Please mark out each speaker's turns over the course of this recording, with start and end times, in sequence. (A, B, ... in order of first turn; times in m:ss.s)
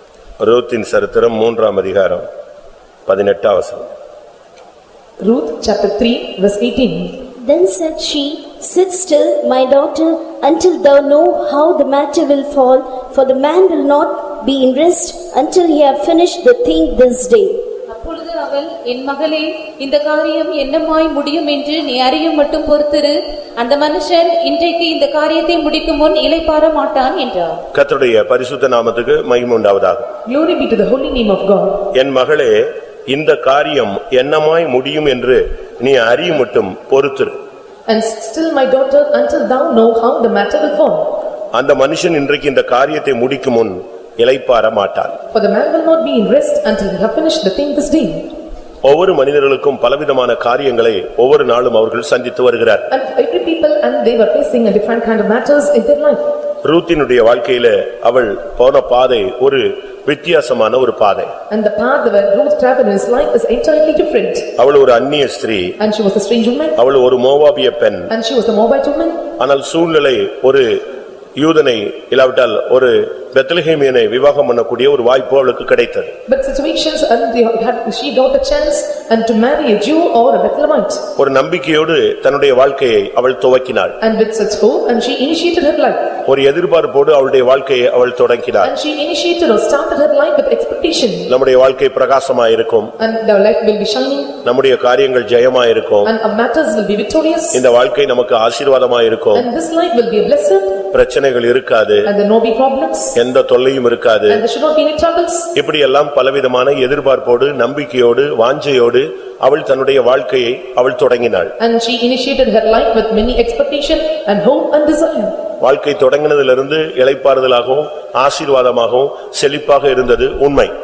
0:00.4-0:02.3 A
0:03.1-0:03.9 A
0:05.2-0:07.2 B
0:07.4-0:17.6 C
0:17.9-0:27.6 D
0:27.7-0:30.1 A
0:30.2-0:31.8 B
0:31.9-0:37.4 A
0:37.9-0:41.1 B
0:41.5-0:45.2 A
0:45.3-0:48.3 B
0:48.8-0:52.9 A
0:52.9-0:56.2 B
0:56.6-1:01.3 A
1:01.5-1:04.5 B
1:04.6-1:05.8 A
1:05.8-1:06.8 B
1:06.8-1:08.1 A
1:08.1-1:09.3 B
1:09.4-1:10.8 A
1:11.4-1:16.1 A
1:16.3-1:21.0 B
1:21.2-1:24.0 A
1:24.0-1:26.1 B
1:26.2-1:28.7 A
1:28.6-1:31.3 B
1:31.3-1:32.9 A
1:33.0-1:34.4 B
1:34.4-1:36.1 A
1:36.0-1:37.6 B
1:37.5-1:39.5 A
1:39.3-1:40.8 B
1:40.9-1:42.1 A
1:42.0-1:43.2 B
1:43.2-1:44.4 A
1:44.3-1:45.5 B
1:45.6-1:51.5 A
1:51.6-1:55.4 B
1:55.6-2:00.7 A